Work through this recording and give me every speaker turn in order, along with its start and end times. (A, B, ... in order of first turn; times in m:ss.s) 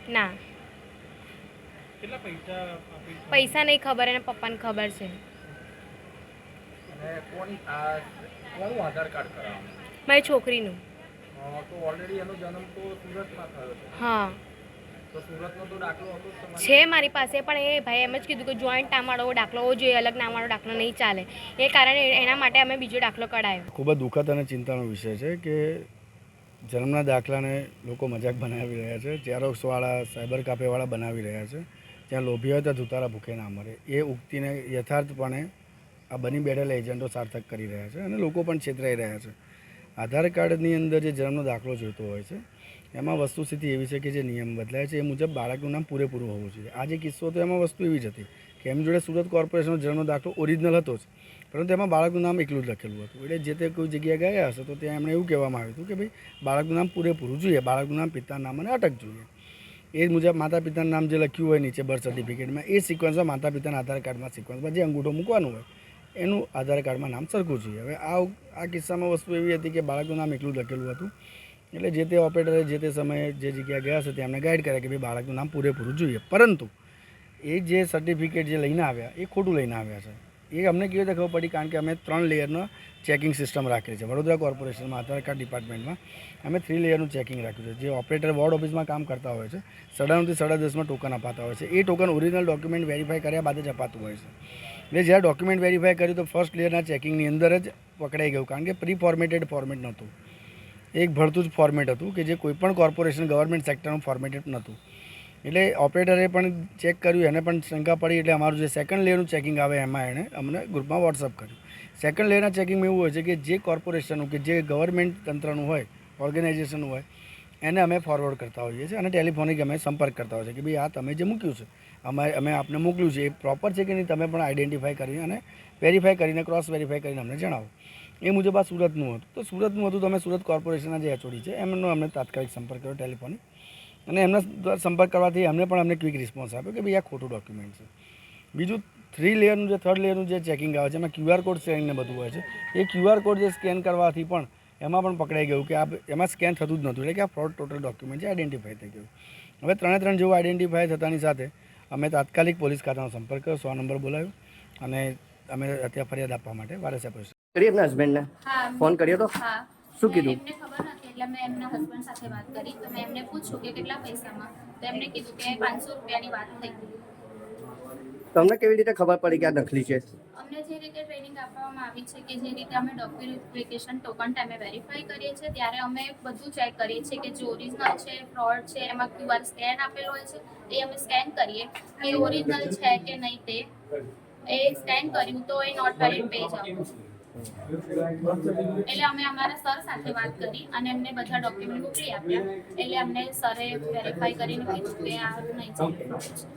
0:00.1-0:00.4 A
0:02.0-0:03.6 B
0:03.3-0:05.2 A
0:06.9-0:09.9 B
0:10.1-0:10.8 A
0:11.4-0:14.0 B
0:14.0-0:14.4 A
0:15.1-0:16.8 B
0:16.6-0:23.6 A
0:23.7-0:25.9 C
0:26.7-0:35.5 C
0:36.1-0:39.3 C
0:40.0-0:42.4 C
0:43.0-0:59.3 C
1:00.0-1:05.7 C
1:06.2-1:11.1 C
1:11.7-1:16.7 C
1:17.5-1:34.3 C
1:34.9-1:40.1 C
1:41.0-1:44.8 C
1:45.4-1:57.1 C
1:57.6-2:07.7 C
2:08.2-2:13.4 C
2:14.1-2:17.9 C
2:18.6-2:29.1 C
2:29.6-2:37.3 C
2:37.6-2:38.3 D
2:38.4-2:47.0 E
2:38.8-2:39.3 D
2:40.0-2:40.4 D
2:48.4-2:50.0 D
2:50.4-3:03.7 E
3:04.5-3:07.0 E
3:08.9-3:16.4 E